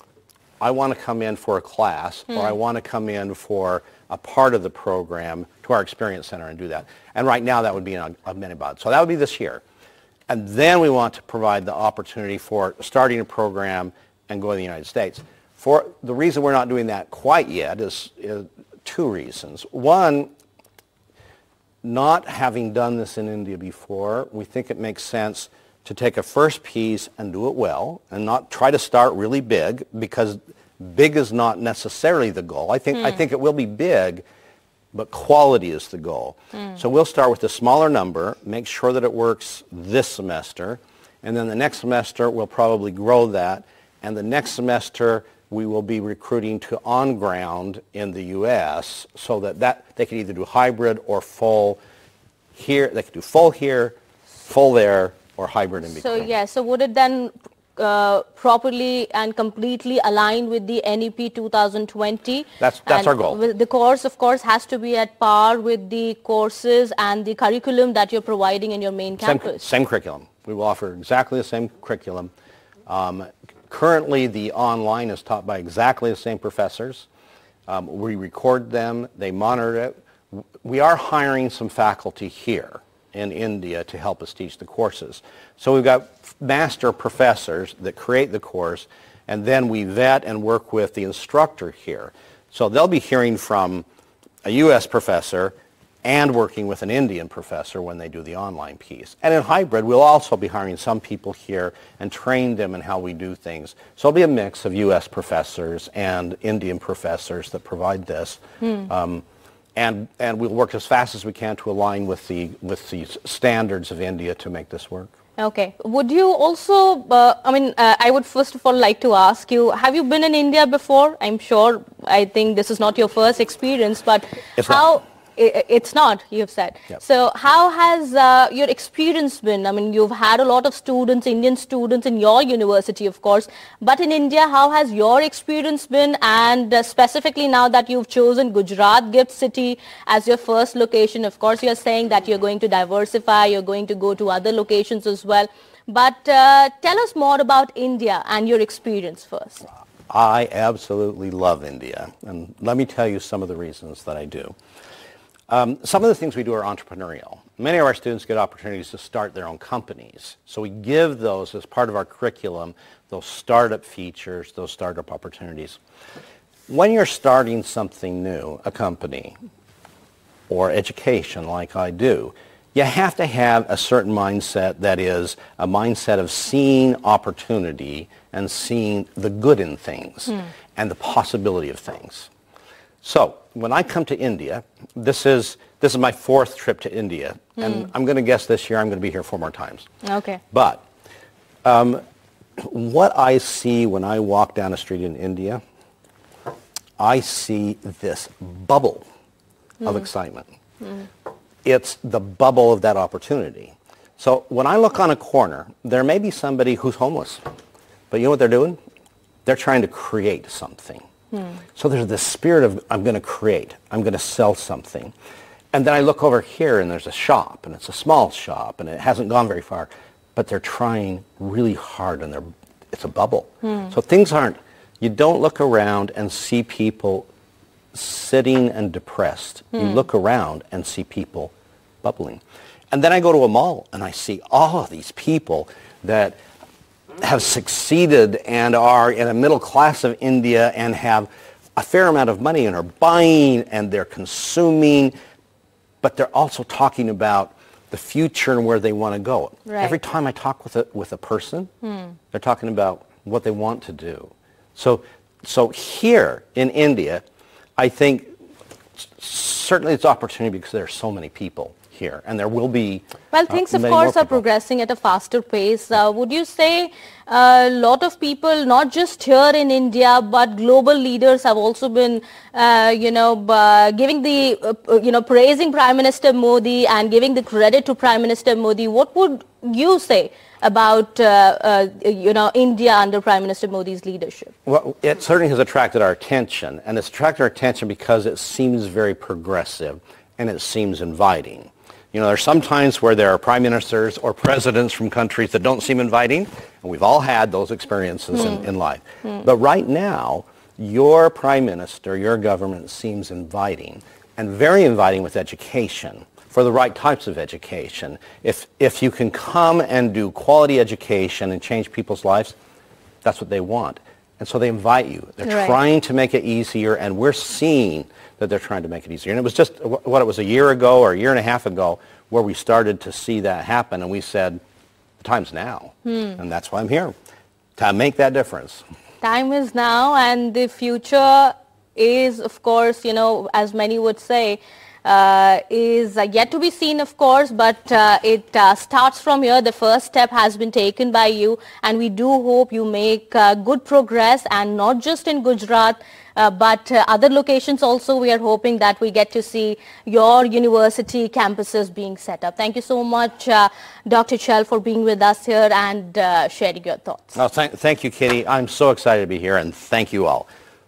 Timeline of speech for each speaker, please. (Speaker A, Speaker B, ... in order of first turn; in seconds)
Speaker A: 0.6-9.6, 10.3-20.3, 21.8-34.2, 34.9-51.8, 52.5-56.3, 62.6-63.4, 69.2-72.3, 72.9-77.0, 77.7-93.8, 94.4-109.2, 109.8-115.1, 124.6-124.9, 150.1-154.5, 155.5-165.8, 166.7-169.3, 170.5-182.3, 183.0-189.8, 190.5-190.8, 191.6-192.0, 192.6-195.6, 197.0-199.0, 199.8-200.5, 201.6-207.4, 208.1-208.8, 209.4-211.0, 211.7-215.1, 215.7-227.3, 227.9-231.5, 232.0-236.3, 237.2-245.1, 246.0-251.7, 252.3-257.2, 257.8-258.3, 259.0-264.4, 284.6-312.5, 313.2-324.6, 325.2-327.1, 327.8-328.8, 357.3-360.5
Speaker B: 32.9-33.2, 55.9-69.6, 108.6-108.9, 115.4-149.6, 190.0-190.4, 249.7-250.0, 263.3-284.5, 315.4-315.8, 326.1-326.4, 329.2-357.4